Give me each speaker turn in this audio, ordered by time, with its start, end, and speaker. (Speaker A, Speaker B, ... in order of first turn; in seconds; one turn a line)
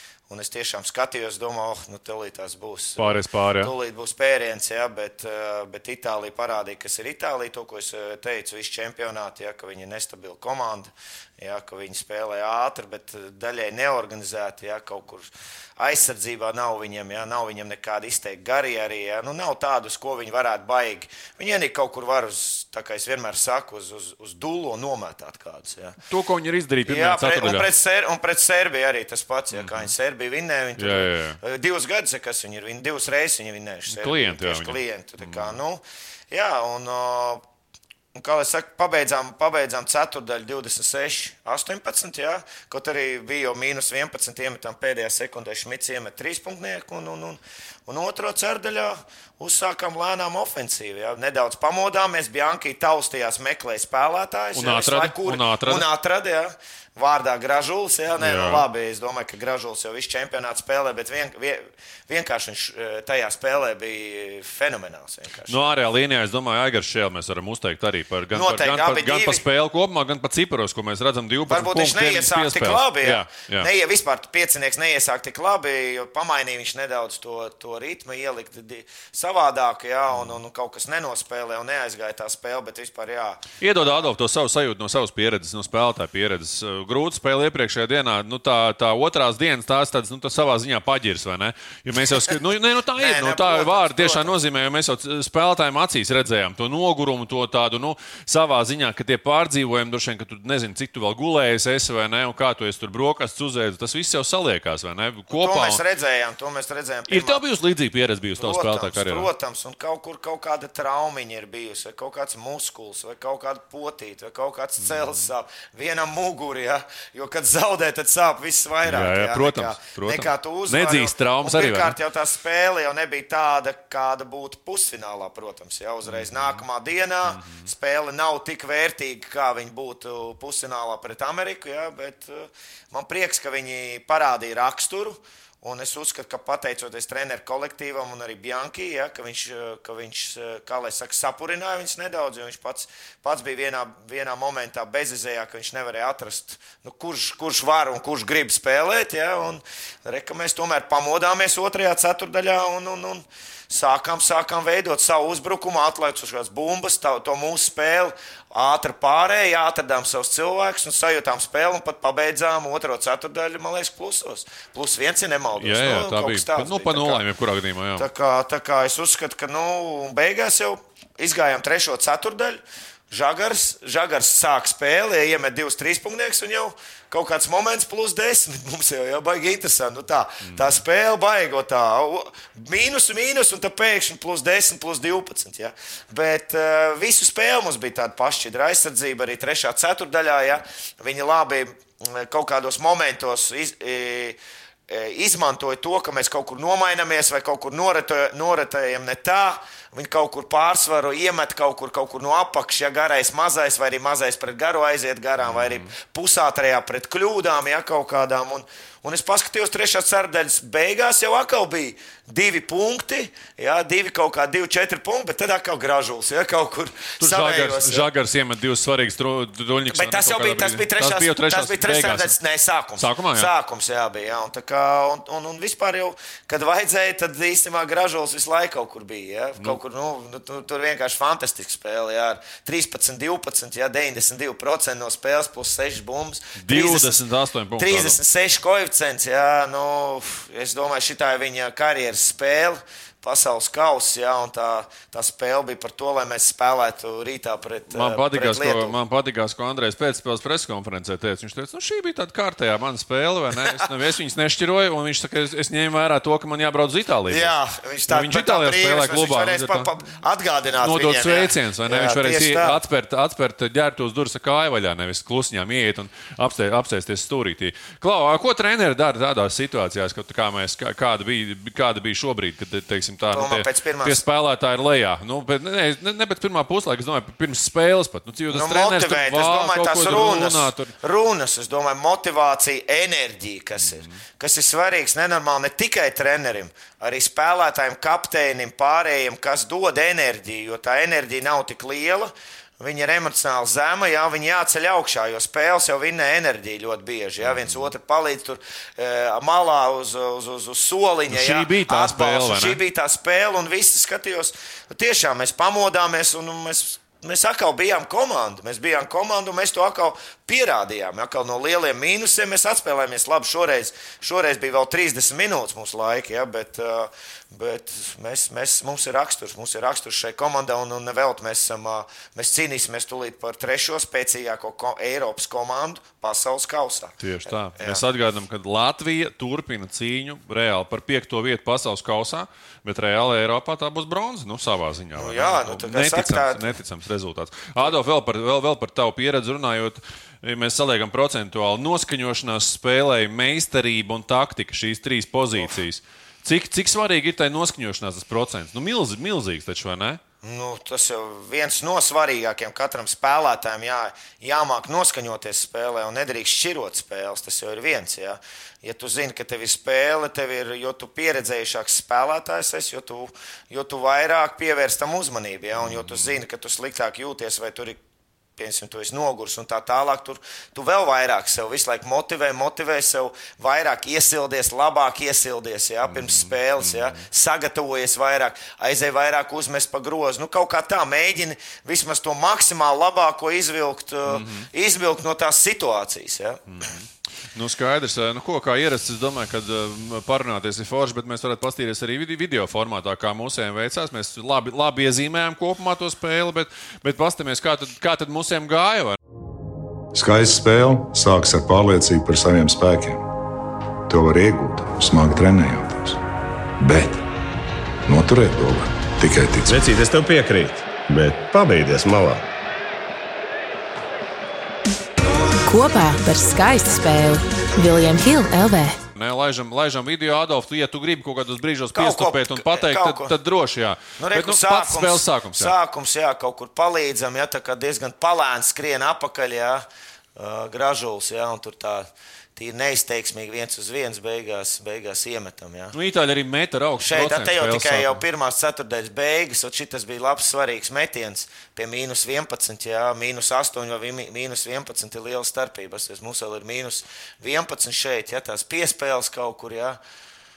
Speaker A: 0.3-26.0
Speaker B: 3.0-3.7
Speaker B: 26.1-27.7
Speaker A: 26.9-37.4
Speaker B: 29.5-29.9
Speaker B: 30.8-31.4
Speaker B: 33.9-35.5
Speaker A: 38.1-65.6
Speaker B: 54.6-55.9
Speaker B: 58.2-58.6
Speaker B: 65.5-73.7
Speaker A: 68.3-69.4
Speaker A: 71.5-84.1
Speaker B: 83.6-105.8
Speaker A: 93.0-94.3
Speaker A: 105.3-107.4
Speaker B: 107.1-109.3
Speaker A: 108.4-167.2
Speaker B: 114.8-115.1
Speaker B: 118.8-122.0
Speaker B: 126.1-126.6
Speaker B: 127.3-127.7
Speaker B: 165.6-168.1
Speaker A: 168.0-194.4
Speaker A: 194.9-218.1
Speaker B: 205.4-205.9
Speaker B: 217.2-222.3
Speaker A: 219.9-237.2
Speaker B: 223.0-223.5
Speaker B: 236.6-238.2
Speaker A: 237.8-249.0
Speaker B: 247.9-257.5
Speaker A: 257.3-262.8
Speaker B: 258.1-259.9
Speaker B: 260.8-280.9
Speaker A: 273.3-274.2
Speaker A: 278.5-328.0
Speaker B: 283.9-284.1
Speaker B: 297.4-297.9
Speaker B: 301.3-302.8
Speaker B: 327.2-350.2
Speaker A: 335.2-336.8
Speaker A: 350.4-368.0
Speaker B: 365.9-366.4
Speaker A: 368.6-386.9
Speaker B: 376.1-377.2
Speaker B: 384.3-384.7
Speaker B: 386.7-399.2
Speaker C: 400.1-403.2
Speaker C: 404.1-406.2
Speaker C: 406.8-407.2
Speaker C: 408.1-409.7
Speaker D: 409.6-412.4
Speaker E: 415.6-419.0
Speaker B: 419.2-425.8
Speaker A: 421.9-423.3
Speaker A: 424.2-429.9
Speaker A: 430.4-436.0
Speaker B: 435.9-438.2
Speaker A: 437.0-450.0